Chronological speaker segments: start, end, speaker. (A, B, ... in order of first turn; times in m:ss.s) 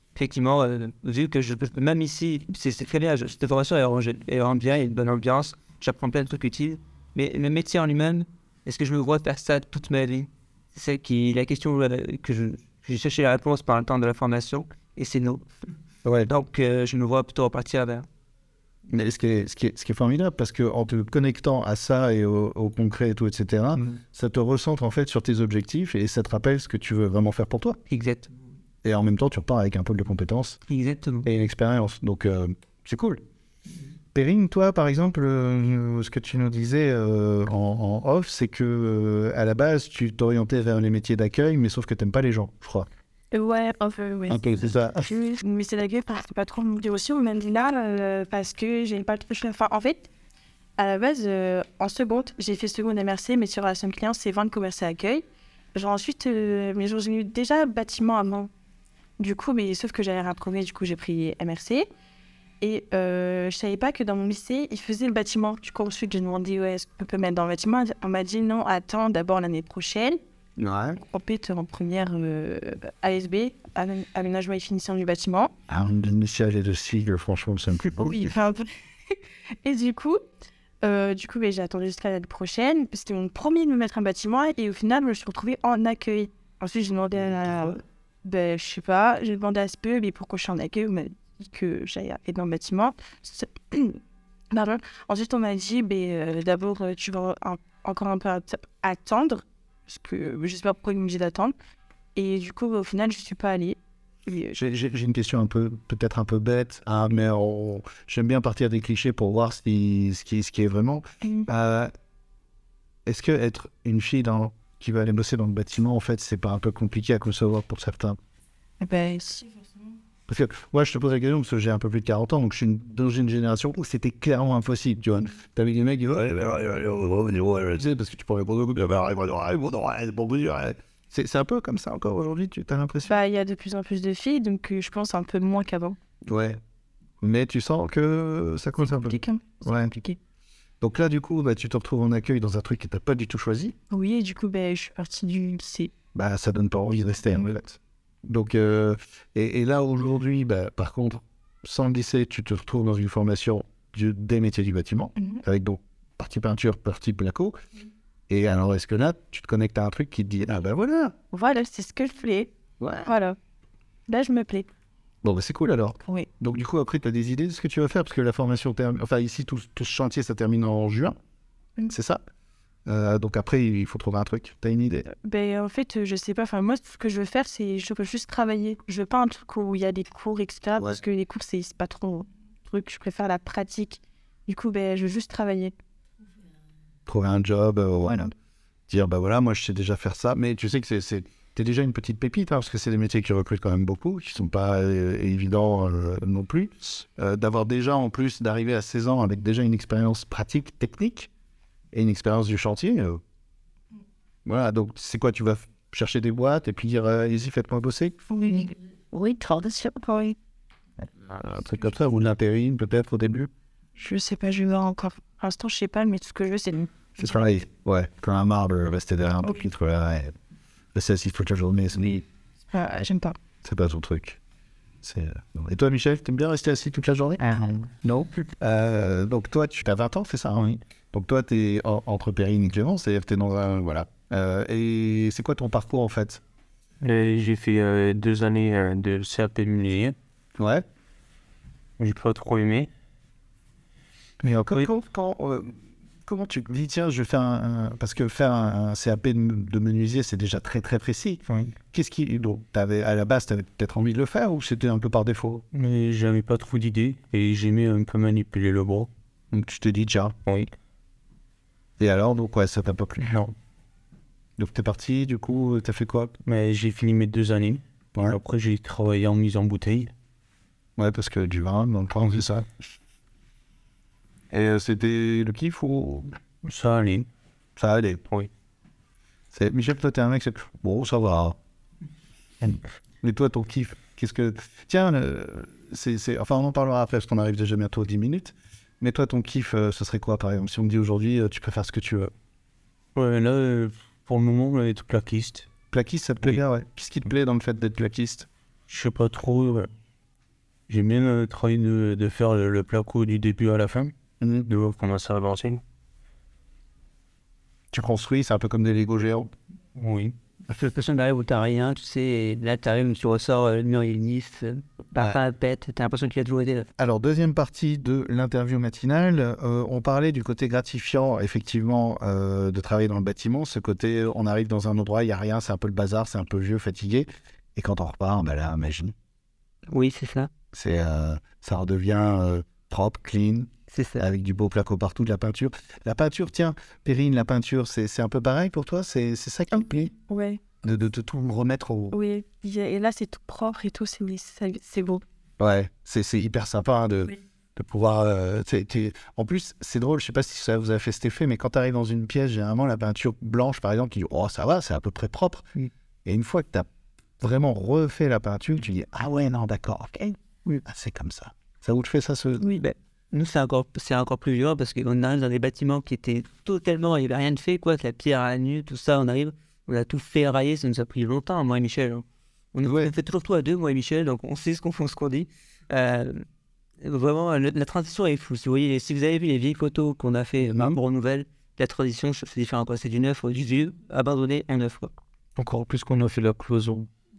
0:00.2-0:15.4 A
0:16.2-0:18.1 A
0:18.9-0:27.8 B
0:27.9-0:28.3 A
0:28.8-0:30.6 B
0:30.7-0:31.3 A
0:31.2-0:33.2 B
0:34.1-0:42.9 B
0:43.3-0:44.4 C
0:44.3-0:44.9 A
0:44.5-0:45.0 B
0:45.0-0:50.1 C
0:50.8-0:55.2 C
0:55.7-0:58.5 C
0:59.2-1:01.9 C
1:02.6-1:10.2 C
1:10.6-1:11.0 B
1:11.0-1:15.5 C
1:15.7-1:18.3 B
1:18.1-1:20.2 C
1:20.8-1:34.0 C
1:34.5-1:41.5 C
1:42.2-1:44.6 C
1:44.5-1:51.9 B
1:53.1-1:58.2 B
1:58.8-1:59.7 C
2:00.3-2:13.2 B
2:13.1-2:16.0 C
2:16.3-2:16.6 B
2:17.2-2:19.9 B
2:18.9-2:20.2 C
2:20.8-2:23.8 B
2:23.9-2:25.9 C
2:26.1-2:37.6 B
2:38.3-2:41.1 B
2:41.3-2:42.5 C
2:42.8-2:43.1 B
2:43.1-2:43.4 C
2:44.1-2:44.7 C
2:45.2-2:51.2 B
2:51.9-2:52.2 B
2:52.9-2:55.1 B
2:55.1-3:05.7 C
3:07.1-3:08.3 B
3:08.9-3:21.3 B
3:21.9-3:23.2 B
3:24.5-3:28.2 B
3:31.3-3:33.5 B
3:34.0-3:36.9 C
3:37.2-3:40.4 B
3:40.9-3:42.2 B
3:42.7-3:43.4 C
3:43.6-3:44.4 B
3:45.0-3:56.4 B
3:57.0-4:00.2 D
4:00.6-4:00.8 B
4:02.0-4:02.9 D
4:04.4-4:04.9 D
4:04.6-4:05.7 B
4:06.3-4:15.6 B
4:11.5-4:11.8 D
4:15.7-4:19.1 D
4:19.5-4:20.4 B
4:22.0-4:23.3 B
4:23.2-4:23.5 D
4:24.6-4:26.3 B
4:26.4-4:30.1 D
4:31.0-4:32.7 B
4:34.5-4:36.3 B
4:36.6-4:37.3 D
4:37.8-4:38.2 B
4:39.5-4:41.6 B
4:42.7-4:52.3 B
4:53.2-4:55.7 D
4:55.9-4:58.5 B
4:58.9-4:59.9 D
5:00.9-5:04.1 D
5:04.4-5:04.7 B
5:04.7-5:05.8 D
5:07.9-5:09.5 B
5:10.0-5:10.4 D
5:10.7-5:16.9 A
5:17.0-5:29.1 B
5:29.9-5:30.5 A
5:30.7-5:40.1 B
5:33.9-5:34.2 A
5:40.3-5:40.6 C
5:40.8-5:42.2 B
5:42.1-5:45.2 C
5:45.6-5:55.7 B
5:56.2-5:56.9 B
5:57.4-6:02.7 B
6:02.7-6:16.4 A
6:12.8-6:13.1 B
6:17.0-6:25.1 A
6:20.6-6:21.0 B
6:25.6-6:27.1 D